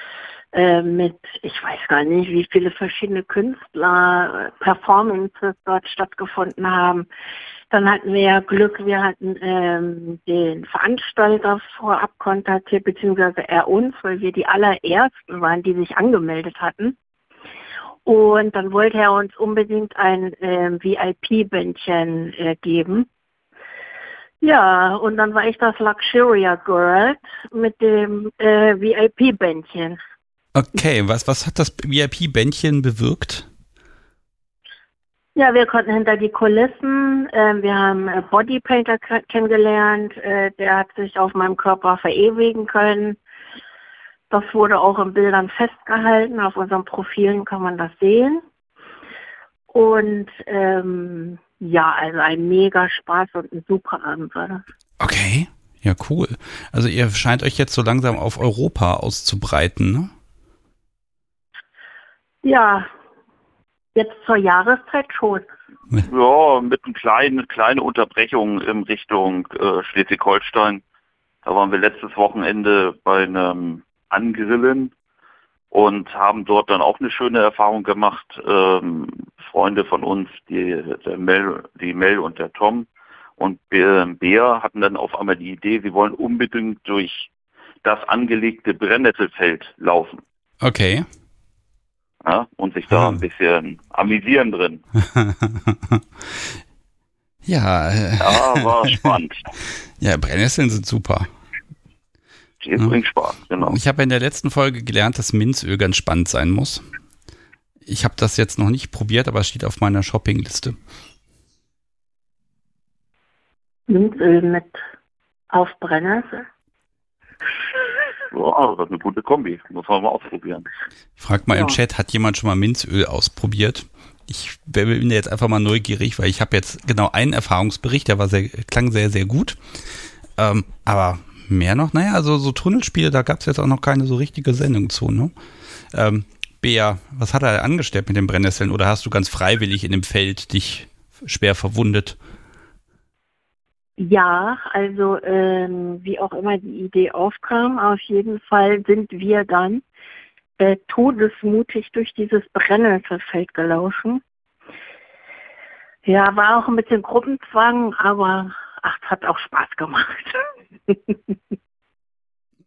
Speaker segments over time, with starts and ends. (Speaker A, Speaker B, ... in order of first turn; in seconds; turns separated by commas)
Speaker A: 0.5-7.1, Speaker A: 7.7-16.9, Speaker A: 18.1-23.1, Speaker A: 24.4-30.0, Speaker B: 30.5-33.5, Speaker A: 35.3-43.2, Speaker A: 44.3-48.4, Speaker A: 49.7-54.6, Speaker B: 55.0-60.1, Speaker A: 62.4-62.9, Speaker A: 63.9-65.5, Speaker C: 66.0-70.8, Speaker C: 71.4-74.9, Speaker C: 75.7-82.8, Speaker C: 83.4-87.3, Speaker C: 87.8-90.2, Speaker B: 90.6-91.1, Speaker C: 92.2-94.8, Speaker B: 92.9-93.2, Speaker B: 95.1-96.0, Speaker B: 97.5-99.2, Speaker C: 98.2-99.5, Speaker B: 100.0-101.3, Speaker C: 102.6-103.8, Speaker B: 103.6-106.8, Speaker B: 107.9-110.8, Speaker A: 113.9-114.8, Speaker A: 115.5-116.5, Speaker C: 118.3-120.7, Speaker B: 121.2-129.6, Speaker B: 130.4-135.3, Speaker B: 135.9-142.2, Speaker A: 144.0-149.8, Speaker A: 150.6-154.2, Speaker A: 156.0-161.3